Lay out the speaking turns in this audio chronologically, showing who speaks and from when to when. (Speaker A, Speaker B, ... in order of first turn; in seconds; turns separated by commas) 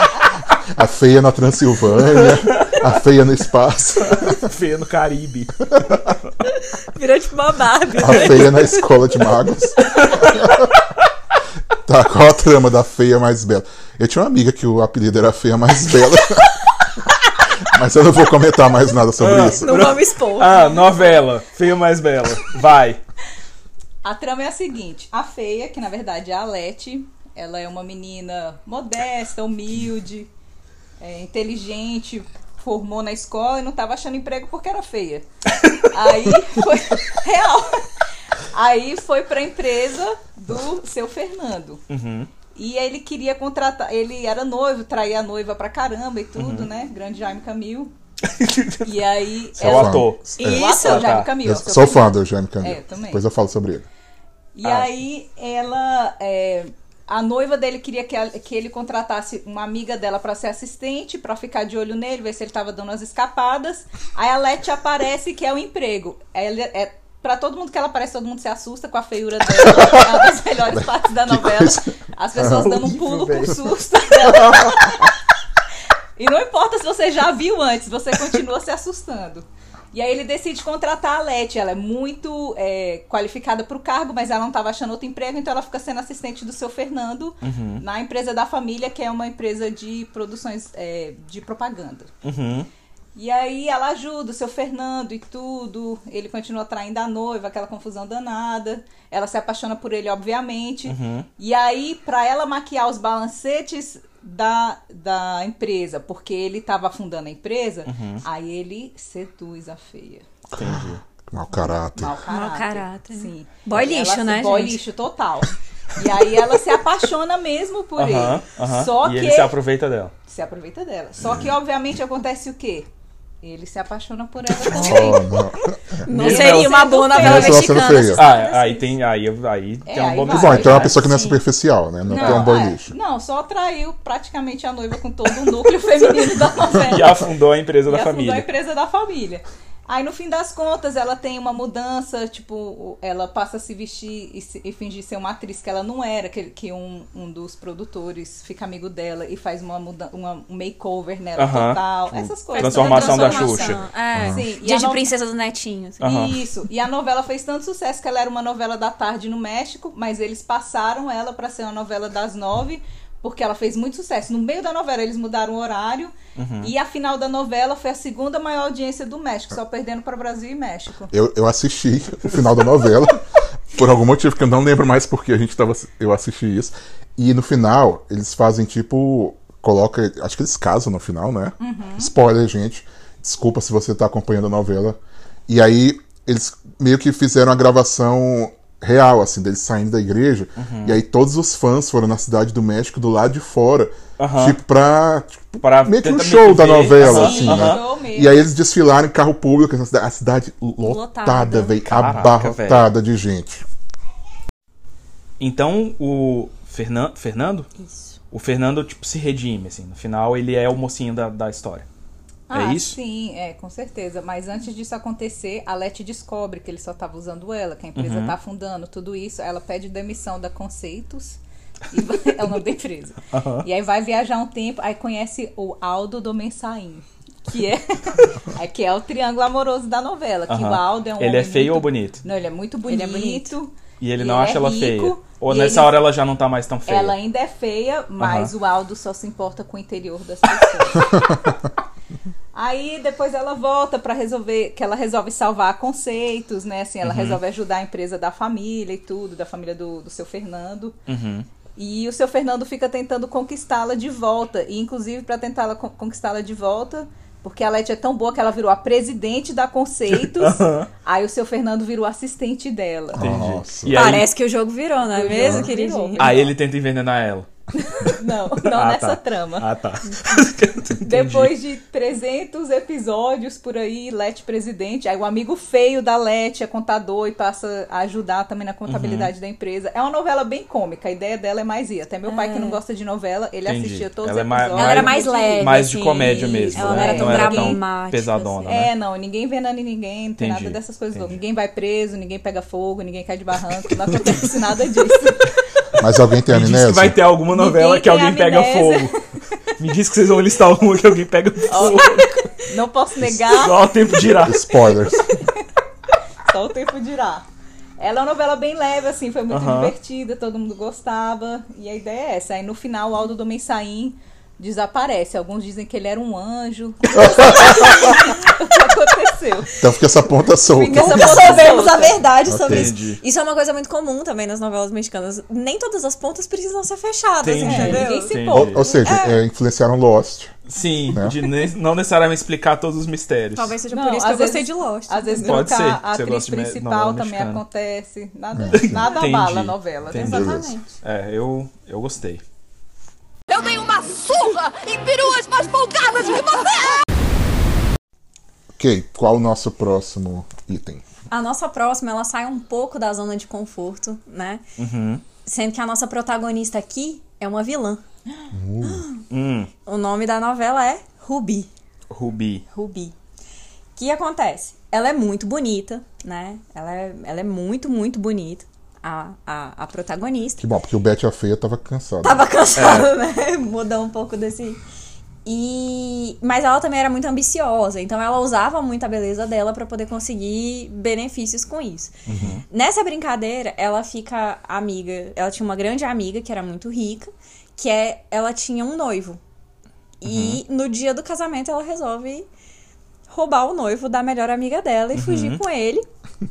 Speaker A: 0.7-4.5, Speaker B: 2.1-2.9, Speaker B: 4.1-6.3, Speaker C: 6.5-8.9, Speaker A: 8.0-10.7, Speaker B: 8.0-8.7, Speaker B: 9.8-10.6, Speaker A: 11.8-16.6, Speaker A: 17.6-19.9, Speaker B: 19.2-23.0, Speaker C: 19.5-20.8, Speaker D: 20.5-21.2, Speaker D: 24.0-30.3, Speaker D: 31.0-35.3, Speaker D: 35.8-37.9, Speaker D: 38.5-41.8, Speaker B: 41.9-42.3, Speaker D: 42.5-47.9, Speaker B: 46.4-46.7, Speaker B: 48.2-51.3, Speaker D: 48.8-53.2, Speaker A: 49.6-50.7, Speaker C: 50.4-51.1, Speaker A: 51.4-53.9, Speaker D: 54.5-75.1, Speaker B: 54.6-54.9, Speaker A: 69.6-72.9, Speaker B: 72.4-73.7, Speaker A: 74.2-75.0, Speaker D: 76.2-92.1, Speaker B: 87.4-87.8, Speaker B: 92.2-92.7, Speaker D: 93.1-110.3, Speaker B: 100.8-101.3, Speaker B: 107.8-108.2, Speaker B: 110.5-111.0, Speaker A: 110.5-112.2, Speaker D: 111.9-119.5, Speaker C: 112.3-114.8, Speaker B: 118.0-120.1, Speaker D: 120.3-122.9, Speaker D: 123.4-125.5, Speaker B: 124.7-125.2, Speaker A: 124.7-126.0, Speaker C: 126.0-128.3, Speaker D: 126.1-128.9, Speaker B: 126.1-127.6, Speaker A: 127.2-128.2, Speaker B: 128.2-131.0, Speaker D: 129.8-131.0, Speaker A: 130.3-132.9, Speaker C: 130.9-131.4, Speaker D: 132.1-137.3, Speaker B: 132.2-132.5, Speaker B: 136.7-138.5, Speaker D: 137.9-155.1, Speaker B: 151.3-153.8, Speaker C: 152.5-156.0, Speaker A: 154.1-154.4, Speaker B: 156.0-156.4, Speaker D: 156.0-171.1, Speaker B: 166.3-166.7, Speaker A: 171.1-203.6, Speaker D: 181.6-182.1, Speaker B: 190.6-191.0, Speaker B: 194.2-194.6, Speaker B: 195.6-197.8, Speaker D: 197.0-198.4, Speaker C: 197.1-197.6, Speaker C: 200.8-201.8, Speaker B: 201.9-202.9, Speaker B: 205.4-207.7, Speaker C: 207.8-208.2, Speaker B: 208.3-211.8, Speaker D: 212.5-221.4, Speaker B: 212.5-213.0, Speaker B: 217.9-218.3, Speaker D: 221.9-235.9, Speaker B: 223.3-223.7, Speaker B: 230.5-232.2, Speaker C: 232.8-233.5, Speaker B: 234.0-237.2, Speaker D: 236.9-241.5, Speaker B: 238.2-238.5, Speaker D: 242.5-251.0, Speaker B: 247.0-247.4, Speaker B: 251.1-251.4, Speaker D: 251.8-263.3, Speaker B: 260.1-260.9, Speaker A: 263.1-264.1, Speaker B: 263.2-264.3, Speaker C: 263.9-266.4, Speaker D: 265.0-266.5, Speaker B: 266.2-267.5, Speaker D: 267.7-269.7, Speaker B: 268.6-271.5, Speaker D: 271.0-285.9, Speaker B: 278.9-279.3, Speaker C: 282.3-282.8, Speaker B: 283.6-288.9, Speaker C: 284.7-288.9, Speaker D: 286.7-287.8, Speaker D: 288.6-295.5, Speaker B: 290.4-291.4, Speaker A: 296.0-297.2, Speaker B: 296.5-299.1, Speaker D: 297.5-299.1, Speaker B: 299.8-302.4, Speaker D: 301.7-304.2, Speaker C: 301.8-302.3, Speaker B: 303.3-304.6, Speaker A: 304.2-305.3, Speaker D: 305.3-305.6, Speaker D: 306.4-307.5, Speaker D: 308.0-319.7, Speaker B: 309.5-309.9, Speaker A: 317.1-318.1, Speaker C: 317.6-318.6, Speaker A: 319.8-321.8, Speaker D: 320.6-322.2, Speaker C: 320.8-328.4, Speaker A: 322.5-322.9, Speaker B: 322.6-323.2, Speaker B: 327.4-328.8, Speaker D: 327.6-329.4, Speaker A: 328.5-330.5, Speaker C: 329.0-329.3, Speaker B: 330.7-333.8, Speaker A: 331.1-331.4, Speaker C: 333.5-335.7, Speaker D: 333.9-340.6, Speaker B: 335.4-337.6, Speaker A: 338.5-339.1, Speaker B: 338.7-342.4, Speaker C: 340.1-340.9, Speaker A: 340.2-340.7, Speaker E: 343.5-347.0, Speaker A: 348.8-351.0, Speaker C: 351.3-354.6, Speaker B: 354.8-355.2, Speaker C: 355.4-358.0, Speaker A: 358.5-359.1, Speaker C: 358.8-359.2, Speaker B: 359.3-359.7, Speaker C: 359.8-361.7, Speaker B: 362.1-362.6, Speaker C: 362.7-363.1, Speaker C: 363.9-370.6, Speaker A: 370.6-372.4, Speaker C: 372.2-374.8, Speaker B: 372.8-373.1, Speaker C: 375.4-382.1, Speaker B: 382.3-382.6, Speaker C: 382.7-389.4, Speaker C: 390.2-392.5, Speaker B: 390.2-390.6, Speaker C: 393.3-396.1, Speaker B: 395.1-395.6